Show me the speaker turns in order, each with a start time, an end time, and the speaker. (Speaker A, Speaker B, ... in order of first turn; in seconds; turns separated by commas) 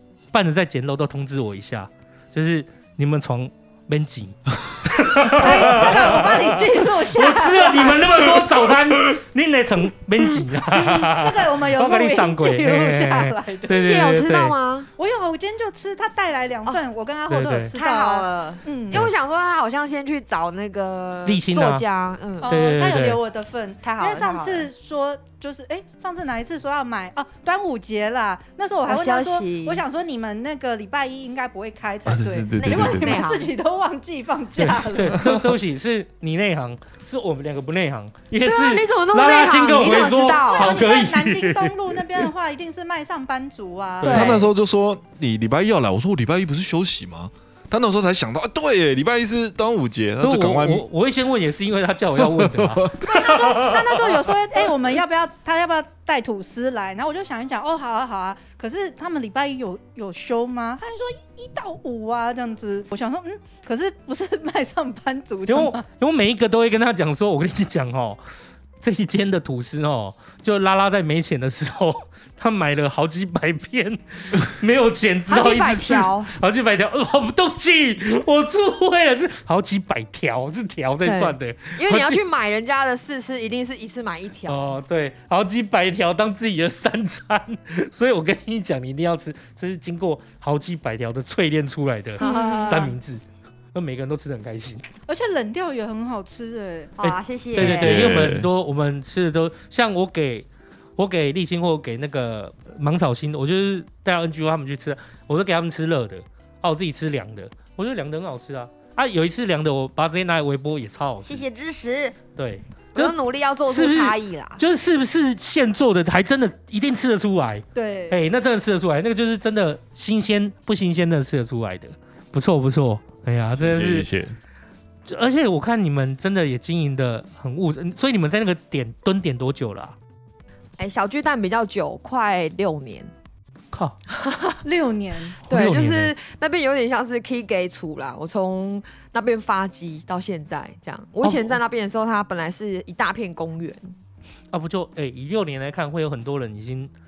Speaker A: 0.3-14.5, Speaker B: 5.3-8.3, Speaker B: 10.7-14.2, Speaker C: 13.7-14.9, Speaker B: 15.0-19.1, Speaker A: 17.3-17.7, Speaker C: 17.7-22.5, Speaker A: 21.2-21.8, Speaker B: 22.4-35.2, Speaker A: 22.4-23.2, Speaker C: 23.8-24.7, Speaker C: 28.9-29.8, Speaker D: 32.0-33.2, Speaker C: 32.6-33.5, Speaker A: 34.6-41.7, Speaker C: 38.4-40.9, Speaker B: 40.5-44.4, Speaker A: 44.0-44.3, Speaker C: 44.0-44.4, Speaker D: 44.0-50.8, Speaker A: 50.2-54.2, Speaker D: 52.1-53.1, Speaker B: 53.0-65.8, Speaker A: 65.5-68.2, Speaker A: 68.8-82.2, Speaker C: 75.3-76.3, Speaker C: 81.0-84.8, Speaker A: 84.5-93.2, Speaker B: 92.2-92.9, Speaker C: 92.2-92.9, Speaker A: 93.7-94.8, Speaker B: 95.1-96.9, Speaker C: 97.0-98.1, Speaker A: 97.0-111.4, Speaker D: 97.5-98.5, Speaker C: 111.2-112.1, Speaker A: 112.3-113.1, Speaker C: 112.9-114.6, Speaker A: 113.7-124.1, Speaker B: 117.7-118.2, Speaker D: 123.6-124.4, Speaker A: 125.1-129.9, Speaker C: 130.8-133.1, Speaker A: 133.7-134.0, Speaker C: 134.2-134.6, Speaker B: 134.6-135.4, Speaker C: 135.4-143.9, Speaker A: 135.5-136.1, Speaker A: 141.2-141.6, Speaker A: 144.5-146.9